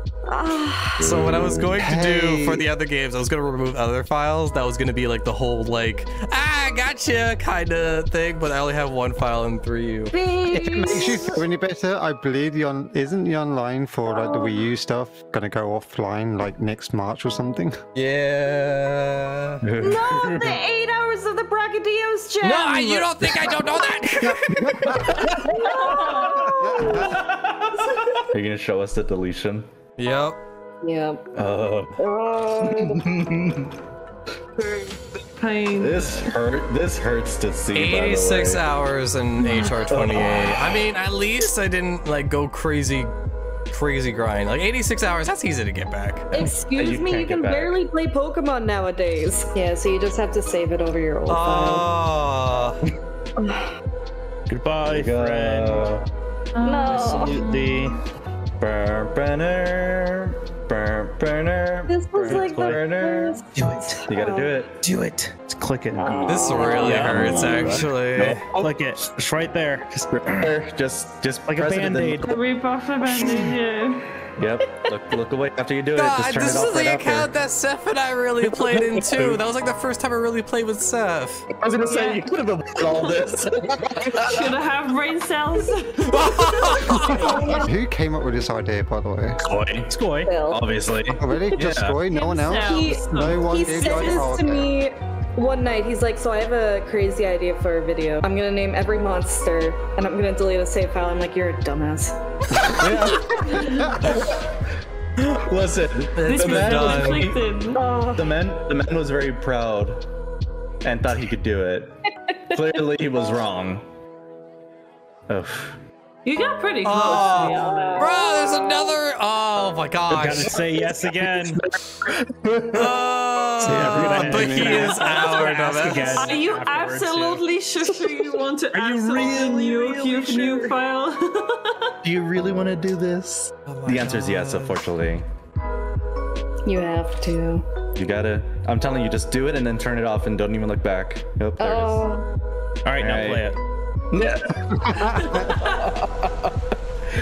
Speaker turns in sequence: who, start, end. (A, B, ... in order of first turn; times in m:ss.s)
0:00.3-0:01.1 A
0:01.0-0:01.8 B
0:01.0-0:10.1 C
0:01.8-0:02.6 D
0:10.1-0:11.4 A
0:10.5-0:17.7 D
0:14.0-0:14.6 A
0:17.9-0:19.6 C
0:19.6-0:20.6 B
0:19.8-0:23.1 A
0:22.4-0:25.3 C
0:24.2-0:25.8 D
0:25.5-0:27.0 A
0:25.7-0:26.4 E
0:26.7-0:27.1 D
0:28.3-0:29.7 B
0:30.0-0:30.4 C
0:30.8-0:31.2 A
0:31.3-0:32.0 B
0:32.0-0:33.0 A
0:32.6-0:33.7 B
0:34.6-0:36.3 E
0:35.8-0:38.6 B
0:37.7-0:43.1 C
0:39.9-0:40.8 B
0:43.7-0:46.5 C
0:46.3-0:51.9 A
0:46.7-0:47.8 B
0:51.3-0:52.8 C
0:53.4-0:53.7 A
0:54.5-0:55.9 F
0:54.8-0:56.0 B
0:56.5-0:57.9 E
0:56.6-0:57.4 A
0:56.9-0:58.0 F
0:58.6-1:03.4 B
1:01.9-1:04.6 A
1:02.3-1:02.8 F
1:03.5-1:04.0 F
1:04.1-1:04.7 B
1:04.8-1:06.1 F
1:05.9-1:07.1 A
1:05.9-1:08.8 B
1:06.2-1:08.4 C
1:06.7-1:10.5 F
1:10.1-1:12.4 B
1:11.4-1:12.3 F
1:12.3-1:14.1 E
1:14.4-1:17.3 B
1:15.9-1:21.5 C
1:18.5-1:19.4 B
1:21.6-1:24.6 B
1:21.9-1:22.2 A
1:22.8-1:23.4 E
1:24.0-1:27.6 E
1:26.1-1:27.1 C
1:27.0-1:29.4 D
1:27.1-1:27.7 A
1:29.4-1:32.0 B
1:29.9-1:30.3 F
1:30.2-1:30.6 A
1:31.1-1:34.7 D
1:32.1-1:34.3 E
1:32.6-1:42.1 A
1:42.7-1:44.5 B
1:43.4-1:43.8 E
1:45.2-1:47.4 B
1:46.2-1:47.3 C
1:46.2-1:47.8 E
1:47.7-1:48.3 A
1:48.1-1:50.0 B
1:50.8-1:53.8 B
1:52.3-1:52.6 A
1:55.3-1:55.8 B
1:56.2-1:58.1 E
1:56.8-2:00.5 C
1:57.2-1:58.8 A
2:00.1-2:01.6 F
2:02.0-2:02.9 B
2:02.7-2:06.3 C
2:03.6-2:07.4 F
2:03.7-2:05.2 D
2:03.7-2:04.0 B
2:06.1-2:11.9 E
2:08.7-2:10.8 F
2:12.0-2:15.2 B
2:13.6-2:14.9 C
2:16.6-2:17.7 A
2:18.0-2:22.0 B
2:21.6-2:22.2 A
2:22.8-2:23.6 F
2:22.9-2:23.5 B
2:24.1-2:26.5 B
2:25.0-2:25.4 D
2:25.2-2:25.8 E